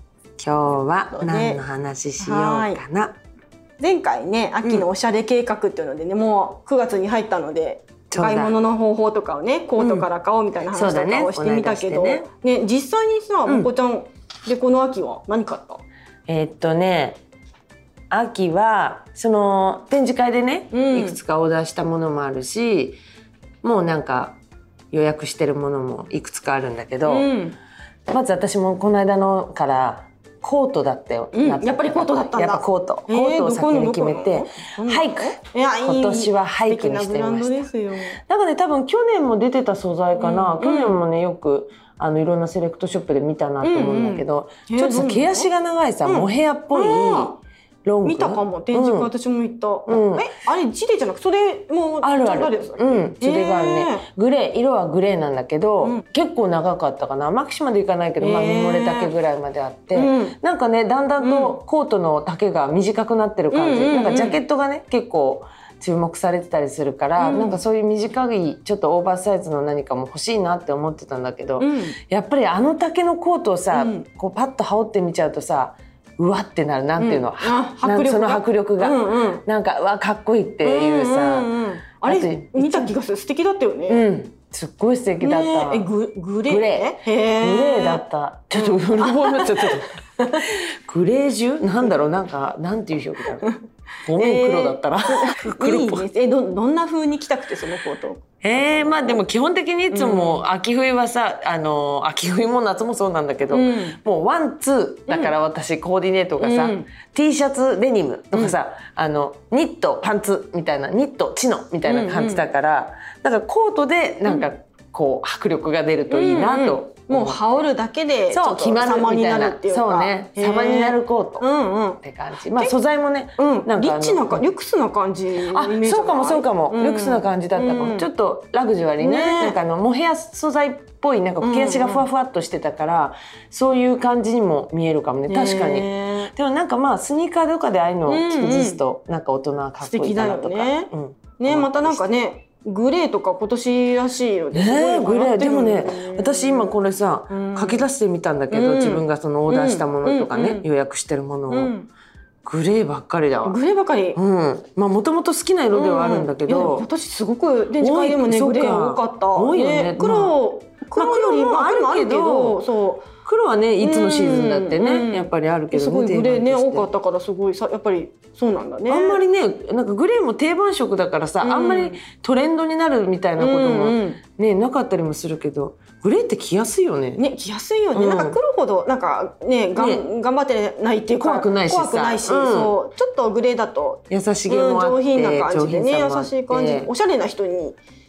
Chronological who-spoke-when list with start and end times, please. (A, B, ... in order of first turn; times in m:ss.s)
0:00.4-0:03.2 A
0:01.1-0:01.6 B
0:02.2-0:02.8 B
0:03.8-0:15.8 B
0:08.1-0:08.6 A
0:09.8-0:10.1 A
0:10.7-0:12.2 A
0:16.3-0:17.2 A
0:18.1-0:23.0 A
0:20.7-0:21.2 B
0:23.6-0:24.4 A
0:24.9-0:27.3 A
0:27.1-0:27.6 B
0:28.1-0:37.6 A
0:31.3-0:38.2 B
0:38.3-0:49.1 A
0:40.2-0:41.0 B
0:43.6-0:45.5 B
0:46.0-0:47.4 B
0:48.0-0:54.0 B
0:49.9-0:50.3 A
0:52.0-1:21.5 A
0:58.2-0:59.1 B
0:59.9-1:00.4 B
1:01.2-1:01.6 B
1:03.5-1:04.4 B
1:07.2-1:07.6 B
1:11.6-1:12.0 B
1:13.7-1:14.0 B
1:17.0-1:19.4 B
1:20.6-1:24.0 B
1:22.0-1:22.9 A
1:23.9-1:25.9 A
1:25.2-1:30.4 B
1:26.5-1:33.5 A
1:34.0-1:36.0 A
1:34.1-1:39.2 B
1:38.4-1:57.4 A
1:39.9-1:40.4 B
1:43.5-1:44.0 B
1:46.4-1:46.9 B
1:51.8-1:52.4 B
1:56.1-2:02.0 B
1:58.3-2:01.4 A
2:02.0-2:04.5 A
2:03.4-2:08.1 B
2:05.5-2:22.0 A
2:09.0-2:09.6 B
2:11.4-2:12.1 B
2:15.3-2:16.3 B
2:18.1-2:18.8 B
2:19.8-2:26.7 B
2:24.5-2:31.7 A
2:27.3-2:27.9 B
2:28.5-2:30.6 B
2:31.5-2:31.9 B
2:32.4-2:33.6 A
2:33.4-2:34.2 B
2:34.1-2:36.8 A
2:35.7-2:43.0 B
2:37.8-2:40.4 A
2:41.0-2:42.6 A
2:43.2-2:46.8 A
2:43.8-2:49.2 B
2:48.9-2:57.2 A
2:51.4-2:52.0 B
2:53.4-2:54.2 B
2:57.2-3:07.8 B
2:57.9-2:58.4 A
2:59.8-3:00.0 A
3:01.2-3:02.7 A
3:04.1-3:06.9 A